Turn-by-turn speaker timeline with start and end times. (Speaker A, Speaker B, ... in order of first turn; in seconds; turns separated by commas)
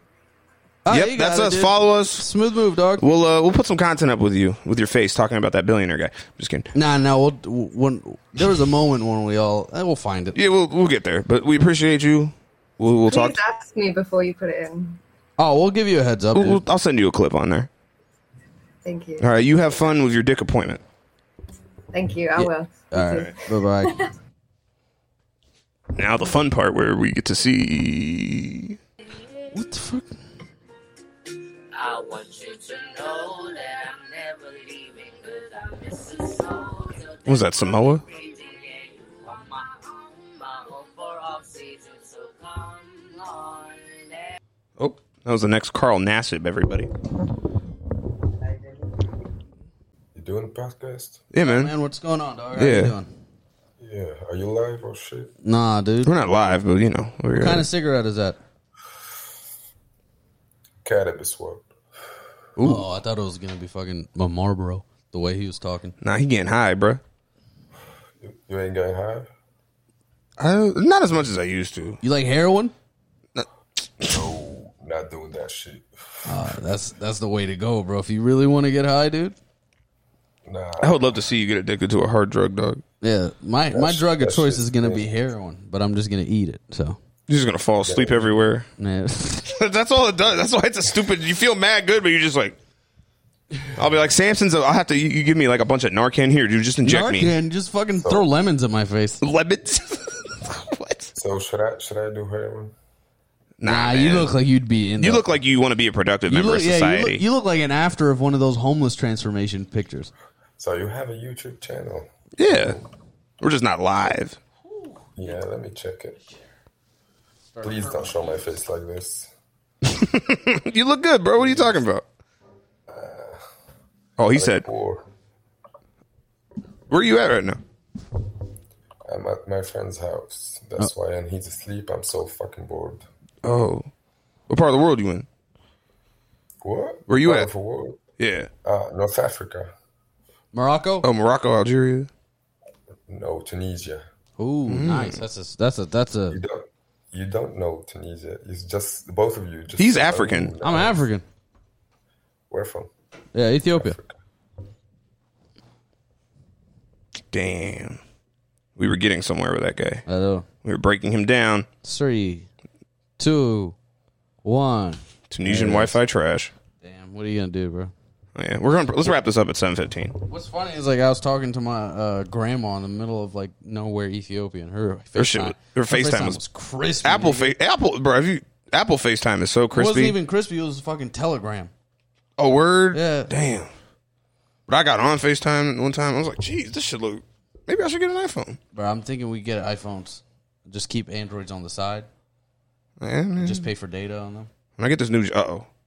Speaker A: 0.8-3.0, Speaker B: 0.9-2.3, Speaker B: 3.0-6.7, Speaker A: 6.7-10.3, Speaker B: 10.3-13.4, Speaker C: 13.1-15.0, Speaker A: 15.4-16.6, Speaker B: 16.3-17.7, Speaker C: 18.8-19.3, Speaker B: 19.2-20.8, Speaker C: 21.9-24.1, Speaker A: 22.4-24.0, Speaker B: 25.9-28.8, Speaker A: 29.5-30.1, Speaker D: 31.8-37.5, Speaker B: 37.2-38.0, Speaker D: 38.1-39.6, Speaker D: 40.4-44.1, Speaker B: 44.8-46.9, Speaker E: 50.1-51.3, Speaker B: 51.3-51.7, Speaker A: 51.4-53.1, Speaker B: 52.5-52.9, Speaker E: 53.8-55.3, Speaker A: 55.4-56.1, Speaker B: 56.0-57.7, Speaker A: 57.3-58.4, Speaker E: 60.8-61.7, Speaker B: 62.6-62.9, Speaker A: 62.6-65.9, Speaker B: 66.0-67.0, Speaker E: 68.2-69.3, Speaker B: 70.4-72.0, Speaker A: 72.0-72.7, Speaker E: 74.0-76.4, Speaker A: 76.2-79.3, Speaker E: 80.5-81.2, Speaker B: 80.8-82.8, Speaker A: 83.0-87.0, Speaker E: 83.7-85.2, Speaker B: 87.3-88.7, Speaker E: 87.8-88.5, Speaker A: 88.8-89.5, Speaker B: 89.5-92.5, Speaker B: 93.8-97.3, Speaker A: 96.8-99.2, Speaker E: 98.0-98.3, Speaker B: 99.2-101.1, Speaker E: 101.2-102.7, Speaker B: 103.6-104.3, Speaker A: 103.6-105.2, Speaker B: 105.0-107.2, Speaker A: 106.3-110.1, Speaker E: 110.6-112.7, Speaker B: 112.4-112.8, Speaker B: 113.4-114.4, Speaker E: 115.2-116.2, Speaker A: 117.5-118.5, Speaker E: 117.6-119.3, Speaker B: 119.9-122.0, Speaker E: 122.9-123.4, Speaker B: 124.2-124.7, Speaker E: 124.3-125.0, Speaker B: 126.9-127.6, Speaker E: 129.1-133.0, Speaker B: 133.4-133.9, Speaker B: 134.5-135.2, Speaker E: 136.6-138.0, Speaker B: 137.1-137.5, Speaker B: 138.2-138.5, Speaker E: 138.6-139.7, Speaker A: 140.5-141.1, Speaker B: 141.0-142.1, Speaker E: 143.1-144.0, Speaker A: 144.4-146.4, Speaker B: 144.7-145.2, Speaker E: 146.3-151.0, Speaker B: 149.8-150.5, Speaker A: 150.6-151.2, Speaker E: 152.5-152.9, Speaker A: 153.3-154.0, Speaker E: 153.7-154.1, Speaker B: 157.3-158.0, Speaker B: 158.8-160.0, Speaker A: 160.1-160.4, Speaker B: 160.6-161.7, Speaker A: 161.8-162.5, Speaker A: 163.2-163.7, Speaker A: 164.4-166.0, Speaker B: 165.3-166.5, Speaker A: 166.8-167.9, Speaker B: 168.3-170.2, Speaker A: 170.3-177.5, Speaker B: 175.2-176.4, Speaker B: 177.0-180.2, Speaker A: 179.7-181.7, Speaker B: 182.4-183.7, Speaker A: 182.9-183.3, Speaker B: 184.7-188.6, Speaker A: 188.7-192.1, Speaker B: 193.0-193.7, Speaker A: 193.4-194.5, Speaker B: 194.8-195.7